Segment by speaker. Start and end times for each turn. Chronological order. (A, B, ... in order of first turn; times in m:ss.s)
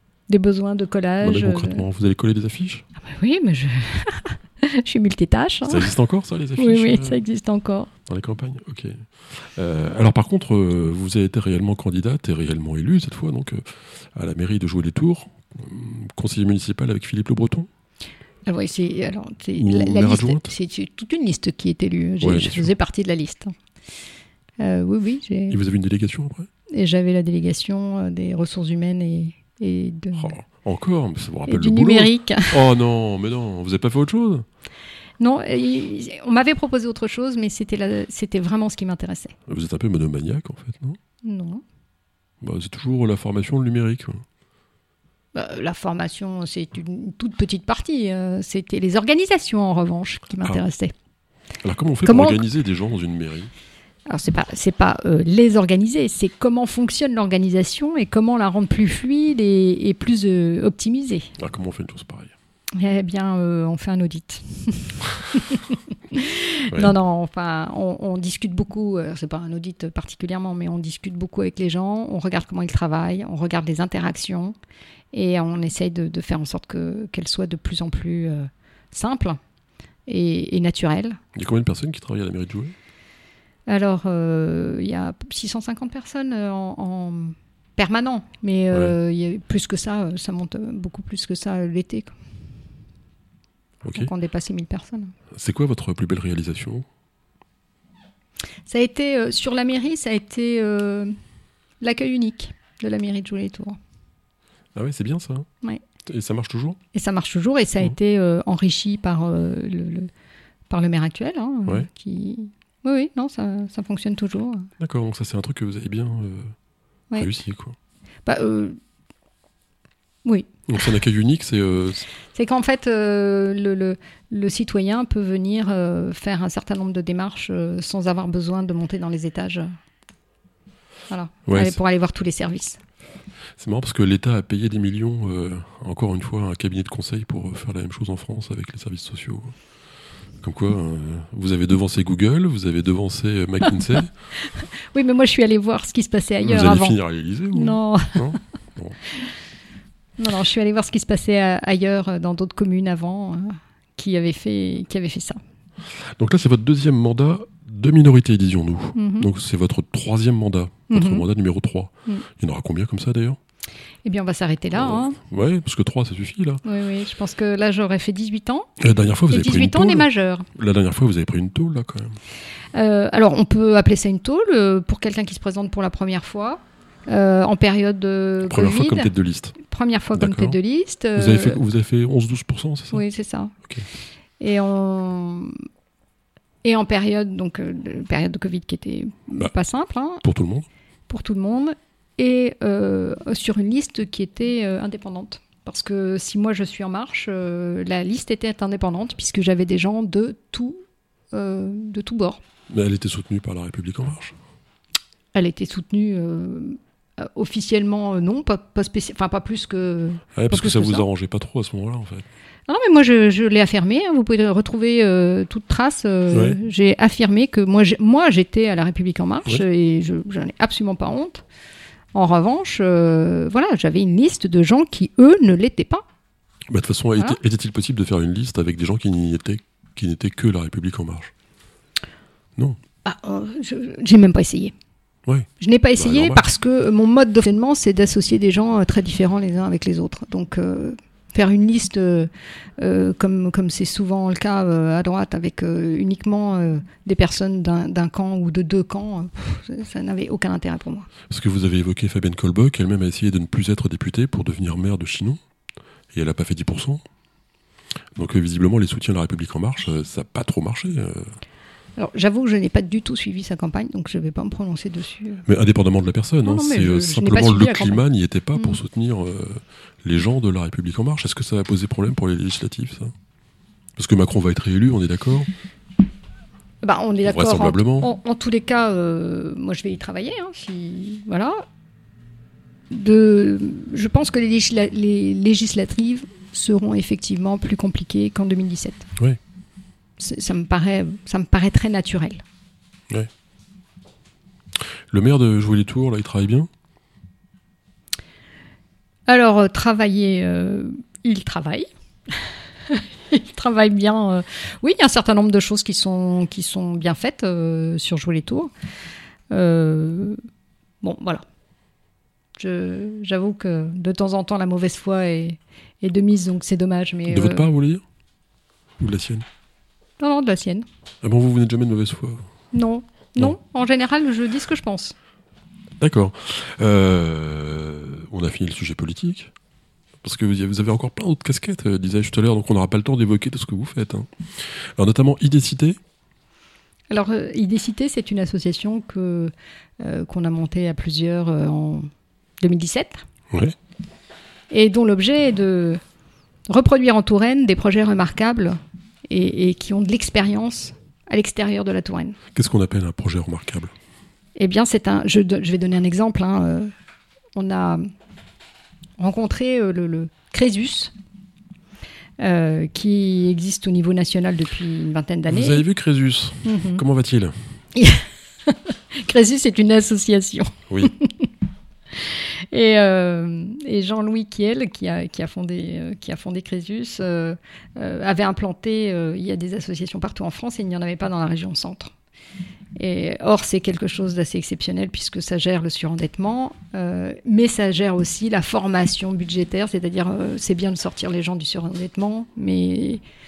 0:00.3-0:01.8 A
0:01.2-0:02.8 B
0:03.0-0:05.9 A
0:05.7-0:07.2 B
0:06.6-0:07.9 A
0:08.1-0:17.7 B
0:18.4-0:23.5 A
0:19.6-0:20.5 B
0:22.2-0:22.7 B
0:24.6-0:25.6 A
0:25.5-0:26.5 B
0:26.7-0:30.3 A
0:30.2-0:34.4 B
0:31.5-0:32.6 A
0:35.2-0:39.4 A
0:39.5-0:41.0 B
0:41.2-0:41.6 A
0:42.4-0:44.2 B
0:45.4-0:50.9 A
0:51.6-0:53.5 B
0:52.0-0:52.4 A
0:54.1-1:01.3 A
1:01.4-1:02.3 B
1:02.8-1:14.6 A
1:15.1-1:19.4 A
1:20.1-1:21.2 A
1:21.4-1:22.7 B
1:23.7-1:32.1 A
1:33.8-1:34.1 B
1:34.0-1:35.1 A
1:35.3-1:36.9 B
1:38.7-1:41.1 A
1:41.8-1:43.8 A
1:44.8-1:45.5 B
1:46.1-1:46.8 B
1:46.9-1:50.1 A
1:50.7-1:54.7 A
1:54.8-1:56.5 B
1:57.2-1:57.8 B
1:58.3-1:58.8 A
2:00.7-2:02.1 B
2:02.3-2:09.7 A
2:11.1-2:12.8 A
2:11.5-2:11.8 B
2:13.6-2:19.6 B
2:20.4-2:24.1 B
2:24.4-2:27.0 A
2:26.4-2:29.0 B
2:27.5-2:28.4 A
2:30.2-2:35.4 A
2:36.0-2:43.4 B
2:39.0-2:39.3 A
2:40.9-2:41.2 A
2:44.0-2:45.2 A
2:44.7-2:46.6 B
2:46.6-2:48.7 A
2:48.8-2:52.2 B
2:49.3-2:50.5 A
2:52.7-3:01.6 A
2:58.4-2:59.6 B
3:00.1-3:00.6 B
3:01.1-3:03.0 B
3:02.9-3:03.5 A
3:04.4-3:05.6 A
3:06.6-3:10.2 A
3:10.2-3:10.7 B
3:11.1-3:20.8 A
3:21.3-3:22.4 A
3:22.7-3:24.4 B
3:25.3-3:31.1 A
3:30.4-3:32.3 B
3:32.7-3:41.4 A
3:36.3-3:36.6 B
3:42.1-3:46.0 A
3:46.7-3:51.3 B
3:53.0-3:54.7 A
3:55.3-3:56.4 B
3:55.6-4:11.1 A
4:11.3-4:15.4 B
4:16.1-4:17.0 B
4:18.2-4:21.3 B
4:22.0-4:25.4 A
4:25.4-4:33.1 B
4:26.4-4:28.0 A
4:34.0-4:35.5 B
4:36.8-4:41.6 A
4:37.2-4:38.1 B
4:42.9-4:49.1 A
4:50.2-4:52.4 A
4:55.1-4:56.7 B
4:59.3-5:08.7 A
5:09.5-5:10.4 A
5:11.0-5:11.4 A
5:12.6-5:17.7 A
5:17.3-5:18.0 B
5:19.0-5:19.4 B
5:20.2-5:20.9 A
5:21.2-5:22.4 B
5:22.7-5:25.1 A
5:26.0-5:29.5 B
5:30.2-5:36.0 B
5:37.1-5:42.1 A
5:42.6-5:43.2 A
5:44.7-5:46.0 A
5:46.7-5:52.4 A
5:52.5-5:53.9 B
5:54.6-5:56.9 A
5:57.6-5:58.1 A
5:59.2-6:01.1 A
6:02.4-6:05.8 A
6:05.5-6:07.6 B
6:06.6-6:07.0 A
6:08.0-6:11.5 A
6:12.2-6:22.1 A
6:23.0-6:33.2 A